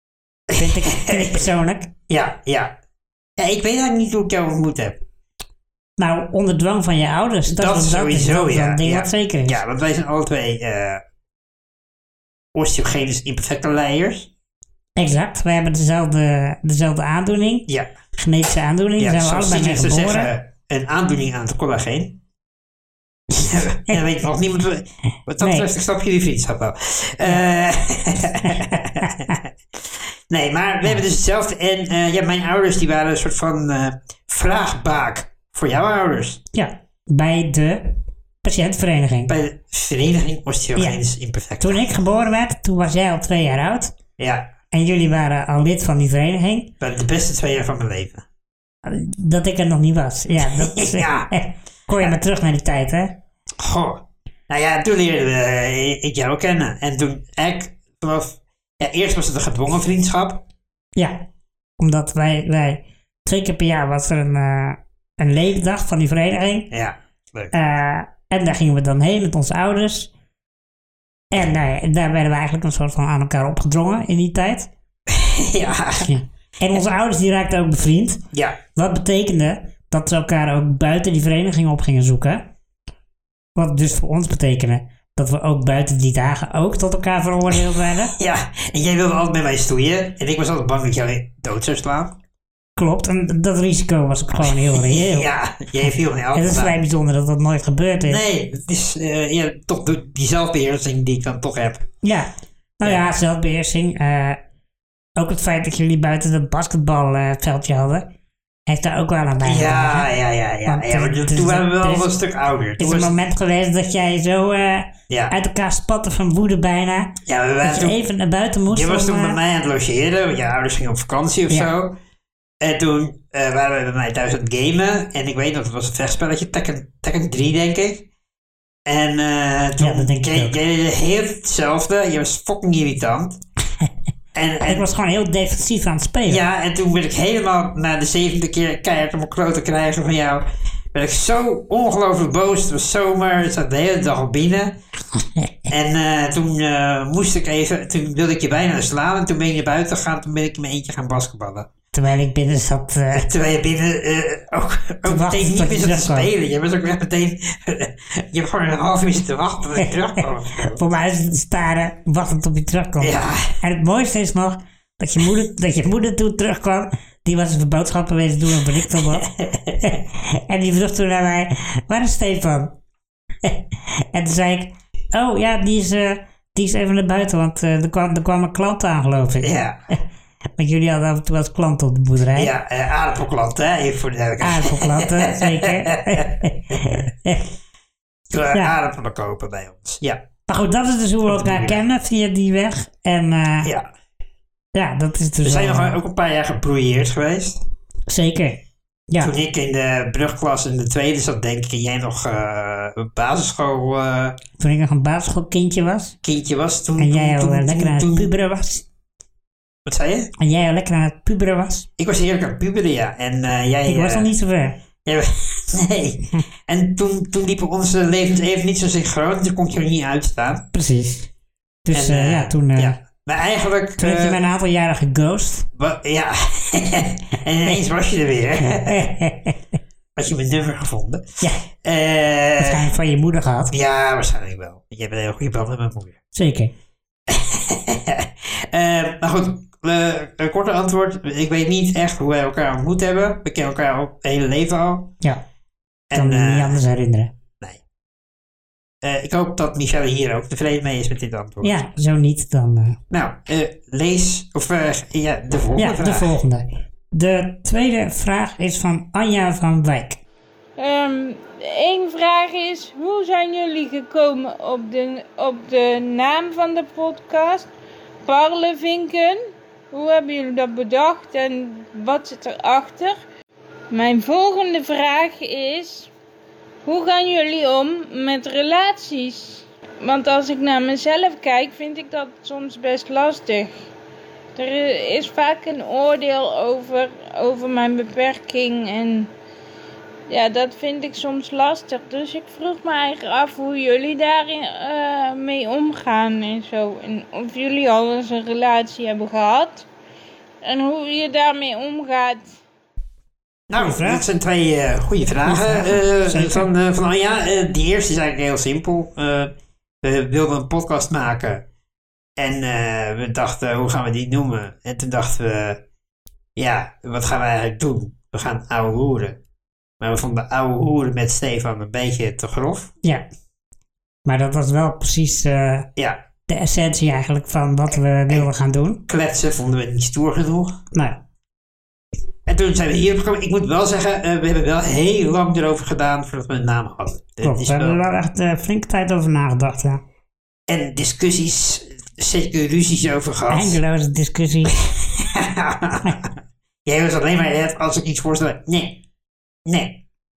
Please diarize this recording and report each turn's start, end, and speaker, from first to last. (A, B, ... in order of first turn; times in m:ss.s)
0:00.5-0:01.4 A
0:00.6-0:01.9 B
0:02.1-0:02.8 A
0:03.4-0:05.0 A
0:06.0-0:09.6 B
0:07.5-0:11.0 A
0:12.5-0:14.3 A
0:15.0-0:20.3 B
0:19.0-0:22.2 A
0:23.4-0:24.0 B
0:23.5-0:36.4 A
0:25.4-0:25.7 B
0:28.4-0:29.4 B
0:36.5-0:39.3 B
0:39.3-0:41.8 A
0:41.6-0:43.9 B
0:44.2-0:44.5 A
0:44.7-0:46.7 B
0:46.8-0:48.3 A
0:48.8-0:53.2 B
0:50.4-0:51.3 A
0:53.6-1:00.4 A
1:01.8-1:06.7 B
1:06.7-1:07.5 A
1:07.5-1:10.1 B
1:11.3-1:14.7 B
1:15.1-1:16.1 A
1:16.0-1:18.2 B
1:18.3-1:18.6 A
1:18.8-1:22.4 B
1:23.6-1:28.1 B
1:28.1-1:32.2 A
1:32.8-1:38.2 B
1:34.7-1:36.8 A
1:38.1-1:41.9 A
1:42.0-1:44.4 B
1:45.2-1:48.1 B
1:48.7-1:50.1 B
1:49.4-1:53.2 A
1:50.7-1:52.1 B
1:52.8-1:59.4 B
1:57.3-1:58.0 A
1:58.7-2:02.0 A
2:02.6-2:08.1 A
2:08.9-2:13.4 A
2:09.8-2:10.5 B
2:14.3-2:14.9 A
2:14.6-2:16.4 B
2:16.3-2:24.8 A
2:25.7-2:31.7 A
2:31.9-2:33.3 B
2:33.1-2:40.8 A
2:35.0-2:36.3 B
2:40.6-2:49.2 B
2:43.0-2:43.5 A
2:48.9-2:50.0 A
2:49.8-2:52.8 B
2:53.4-3:00.0 B
2:59.4-2:59.8 A
3:00.6-3:02.5 B
3:02.4-3:07.0 A
3:04.4-3:07.5 B
3:08.3-3:10.2 A
3:10.5-3:13.7 B
3:11.3-3:11.8 A
3:13.6-3:13.9 A
3:14.8-3:16.0 B
3:15.4-3:17.6 A
3:18.1-3:19.3 B
3:19.2-3:24.4 A
3:24.6-3:26.2 B
3:26.2-3:28.3 A
3:27.0-3:28.8 B
3:29.9-3:30.3 A
3:30.4-3:31.9 B
3:32.0-3:34.3 A
3:33.9-3:34.8 B
3:35.0-3:40.7 A
3:40.7-3:41.3 B
3:41.8-3:43.0 B
3:41.9-3:44.4 A
3:44.0-3:45.7 B
3:45.8-3:49.1 A
3:48.8-3:49.6 B
3:50.2-3:52.9 A
3:52.6-3:53.7 B
3:53.7-3:56.2 A
3:56.3-3:56.7 B
3:57.3-4:05.2 A
4:06.1-4:06.8 A
4:06.1-4:07.3 B
4:09.0-4:11.8 A
4:11.6-4:13.0 B
4:13.1-4:16.4 A
4:15.8-4:20.2 B
4:20.8-4:27.7 C
4:28.3-4:33.2 C
4:33.9-4:36.1 C
4:36.8-4:43.7 C
4:44.6-4:49.3 C
4:50.3-4:59.9 C
5:00.6-5:02.6 C
5:03.7-5:11.6 A
5:03.8-5:04.2 B
5:05.4-5:06.7 B
5:12.4-5:15.8 A
5:16.6-5:19.4 A
5:20.0-5:22.9 A
5:24.3-5:25.9 B
5:26.5-5:29.0 B
5:29.1-5:30.8 A
5:30.9-5:31.2 B
5:32.5-5:38.0 A
5:37.4-5:40.0 B
5:40.7-5:43.8 A
5:43.5-5:44.8 B
5:44.7-5:46.3 A
5:46.8-5:49.0 A
5:49.7-5:50.0 A